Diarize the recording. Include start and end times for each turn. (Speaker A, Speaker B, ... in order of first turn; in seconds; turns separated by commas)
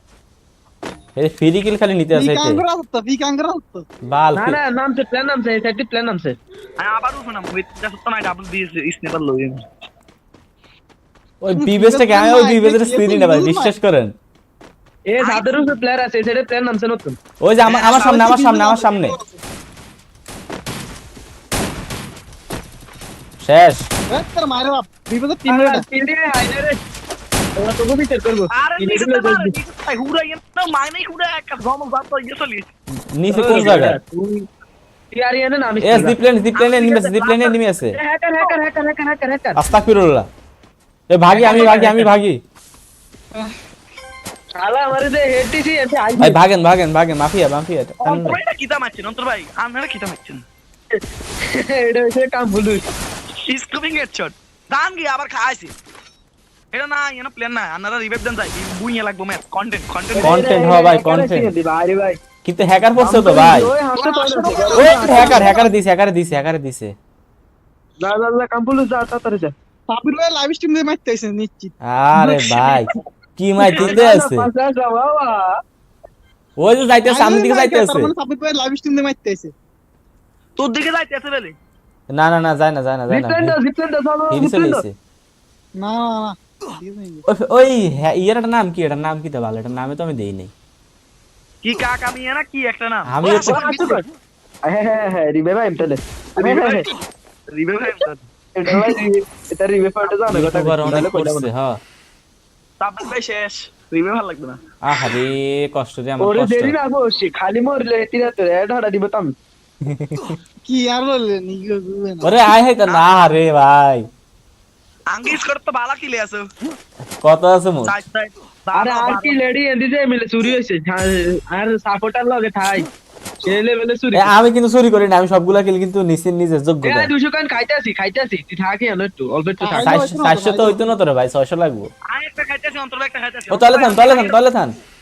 Speaker A: 1.2-2.6, Speaker B: 2.1-3.9, Speaker A: 4.0-4.6, Speaker C: 4.3-6.4, Speaker D: 6.8-9.6, Speaker A: 11.4-14.2, Speaker B: 11.6-13.7, Speaker C: 15.1-17.2, Speaker D: 15.2-15.7, Speaker A: 17.4-19.2, Speaker D: 17.7-18.3, Speaker B: 17.9-19.4, Speaker A: 23.4-23.9, Speaker B: 24.1-25.9, Speaker C: 25.5-26.8, Speaker C: 27.6-29.6, Speaker D: 28.5-32.7, Speaker A: 33.1-34.0, Speaker C: 33.3-34.5, Speaker C: 35.1-36.2, Speaker A: 35.8-38.0, Speaker D: 36.6-37.6, Speaker C: 37.9-39.6, Speaker A: 39.6-40.3, Speaker A: 41.1-42.4, Speaker C: 41.3-42.1, Speaker C: 44.6-46.4, Speaker A: 46.2-48.4, Speaker D: 48.0-50.4, Speaker C: 50.9-52.9, Speaker D: 53.5-55.7, Speaker D: 56.7-60.4, Speaker C: 60.1-62.2, Speaker A: 60.2-61.5, Speaker A: 62.4-63.7, Speaker C: 63.0-65.7, Speaker B: 64.0-65.6, Speaker A: 64.8-67.0, Speaker C: 68.0-69.5, Speaker B: 69.9-72.8, Speaker A: 71.8-74.5, Speaker C: 73.6-75.6, Speaker A: 76.6-78.1, Speaker B: 77.1-79.5, Speaker D: 80.6-81.5, Speaker A: 82.1-83.6, Speaker C: 83.1-84.8, Speaker A: 84.3-84.9, Speaker B: 85.8-87.2, Speaker A: 87.3-90.5, Speaker D: 91.6-94.0, Speaker A: 93.1-93.7, Speaker C: 93.2-94.0, Speaker C: 94.7-96.9, Speaker D: 96.4-97.0, Speaker D: 97.5-98.2, Speaker C: 98.5-101.5, Speaker A: 100.3-101.8, Speaker D: 102.8-104.6, Speaker A: 104.8-106.8, Speaker C: 106.2-109.3, Speaker A: 109.9-110.3, Speaker B: 110.7-112.3, Speaker A: 112.2-114.1, Speaker D: 115.1-116.5, Speaker A: 117.2-117.9, Speaker D: 117.8-119.3, Speaker C: 118.8-122.9, Speaker C: 123.4-124.3, Speaker A: 124.1-127.1, Speaker C: 126.8-129.9, Speaker B: 129.6-130.8, Speaker A: 129.8-131.9, Speaker D: 132.1-134.4, Speaker A: 133.5-134.8